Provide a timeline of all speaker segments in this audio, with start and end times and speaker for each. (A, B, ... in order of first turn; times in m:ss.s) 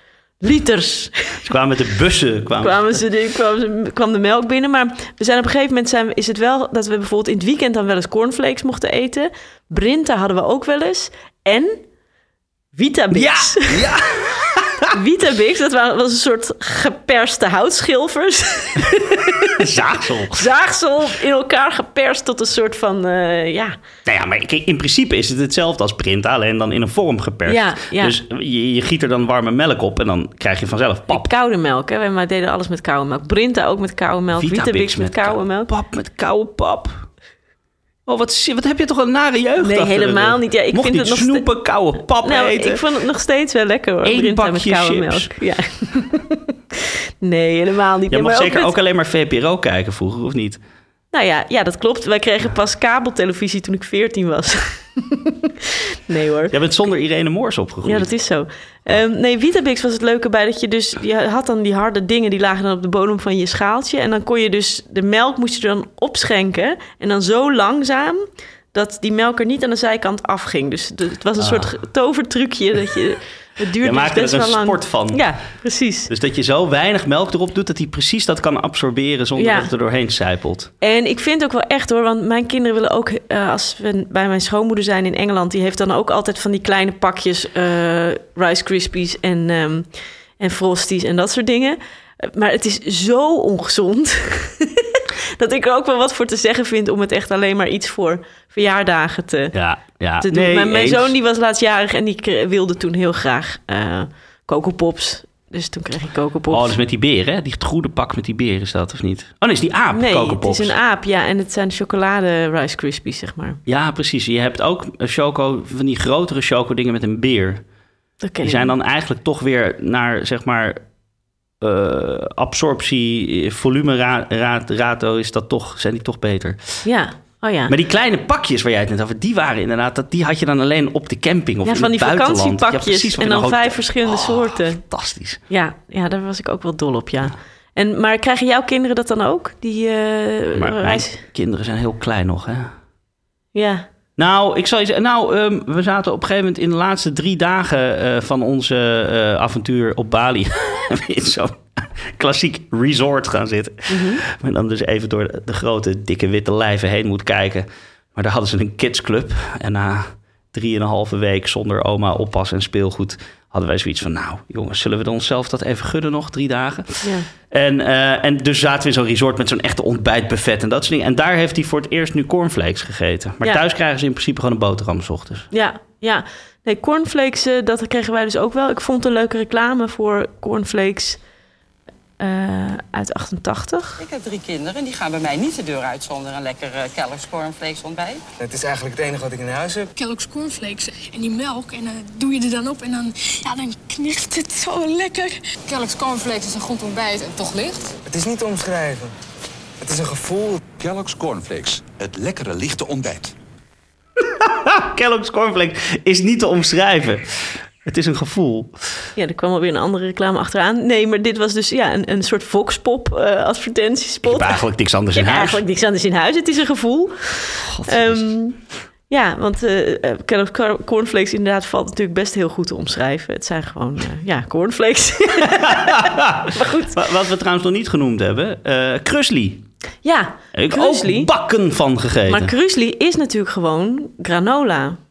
0:00.4-0:01.4 A
0:01.4-0:03.0 B
0:02.6-0:11.8 A
0:12.7-0:13.8 A
0:13.1-0:14.9 B
0:14.9-0:19.6 A
0:19.6-0:20.4 B
0:20.3-0:23.8 A
0:24.0-0:31.3 B
0:27.5-0:28.2 A
0:31.1-0:35.7 A
0:34.3-0:37.1 B
0:38.1-0:42.8 B
0:39.6-0:41.4 A
0:42.2-0:48.7 A
0:44.0-0:45.3 B
0:48.1-0:50.6 B
0:51.1-0:56.5 A
0:56.5-0:58.1 B
0:57.8-1:08.2 A
1:08.7-1:16.1 A
1:11.4-1:11.7 B
1:13.8-1:15.3 B
1:16.1-1:20.7 B
1:19.4-1:19.7 A
1:20.8-1:29.9 A
1:30.4-1:39.5 A
1:39.5-1:41.1 B
1:40.2-1:46.8 A
1:46.5-1:50.7 B
1:49.9-1:53.6 A
1:53.6-1:57.6 B
1:58.2-1:58.7 A
1:58.4-2:00.8 B
2:01.6-2:06.8 B
2:06.8-2:07.7 A
2:07.7-2:15.4 B
2:11.6-2:14.8 A
2:15.5-2:21.2 A
2:20.6-2:22.7 B
2:23.5-2:23.8 A
2:24.2-2:55.5 B
2:33.9-2:34.2 A
2:47.0-2:47.3 A
2:55.5-3:01.2 A
3:02.2-3:04.0 A
3:04.0-3:08.2 C
3:08.4-3:09.9 D
3:10.0-3:17.9 E
3:18.1-3:19.1 D
3:19.8-3:20.6 D
3:20.7-3:23.3 F
3:24.2-3:28.9 B
3:29.2-3:34.6 A
3:34.2-3:35.6 B
3:35.1-3:38.6 A
3:37.6-3:38.3 B
3:39.1-3:47.0 A
3:45.4-3:49.6 B
3:50.0-3:51.3 A
3:50.5-3:52.5 B
3:52.3-3:55.0 A